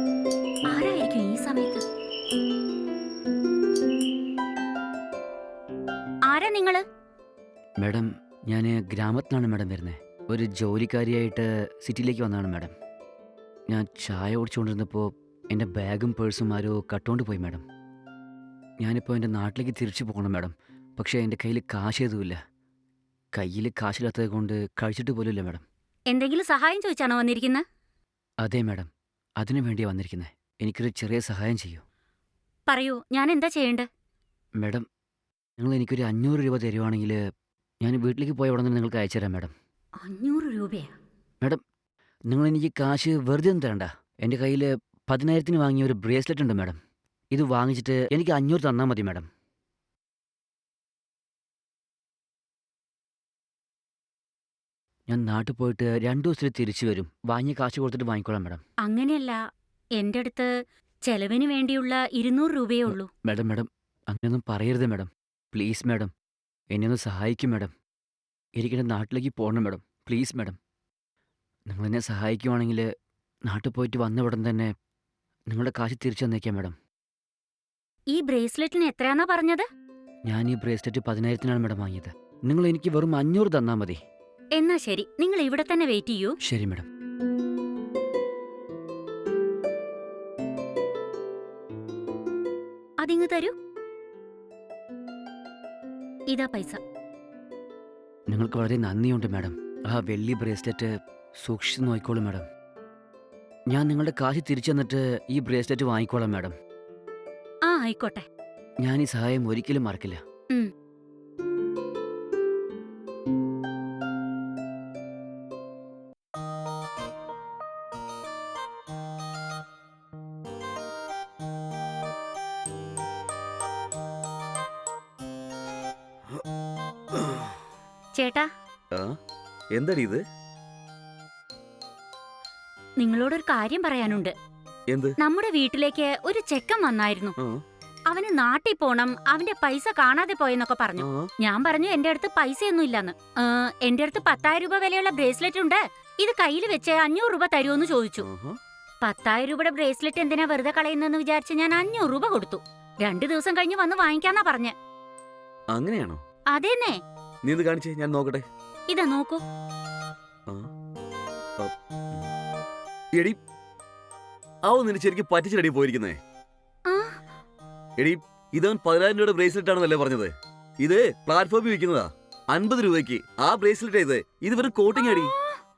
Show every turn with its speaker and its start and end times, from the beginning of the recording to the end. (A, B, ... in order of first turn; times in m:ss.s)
0:00.6-0:01.8 A
0:06.3-0:06.8 A
0:07.8-0:12.7 B
0:13.7-0:17.6 B
0:18.8-0:22.4 B
0:23.3-0:25.6 B
0:26.1-0:27.6 A
0:28.4-0:28.9 B
0:29.4-0:31.8 B
0:32.7-0:33.8 A
0:34.6-0:34.8 B
0:35.6-0:37.2 B
0:37.8-0:39.5 B
0:40.0-0:40.9 A
0:42.3-0:46.8 B
0:47.3-0:49.3 B
0:55.1-0:58.6 B
0:58.8-0:59.4 A
1:00.0-1:00.5 A
1:01.0-1:03.1 A
1:02.9-1:06.1 B
1:06.7-1:07.7 B
1:08.6-1:10.6 B
1:11.7-1:12.9 B
1:13.4-1:14.7 B
1:15.5-1:16.7 B
1:18.1-1:19.6 A
1:20.2-1:24.0 B
1:24.6-1:26.4 A
1:26.4-1:26.8 B
1:33.0-1:33.5 A
1:36.3-1:36.8 A
1:38.3-1:42.4 B
1:43.7-1:46.5 B
1:47.6-1:48.2 A
1:48.8-1:50.2 B
2:07.1-2:07.5 C
2:08.1-2:08.5 A
2:09.7-2:10.2 C
2:13.0-2:14.3 A
2:14.9-2:15.2 C
2:15.2-2:17.3 A
2:18.1-2:28.3 A
2:21.0-2:21.3 C
2:28.2-2:28.6 C
2:29.0-2:34.7 A
2:35.7-2:36.2 C
2:36.5-2:37.0 A
2:37.4-2:38.4 C
2:38.9-2:39.4 A
2:44.6-2:46.2 C
2:46.9-2:47.2 A
2:48.0-2:55.3 C
2:54.9-2:55.6 A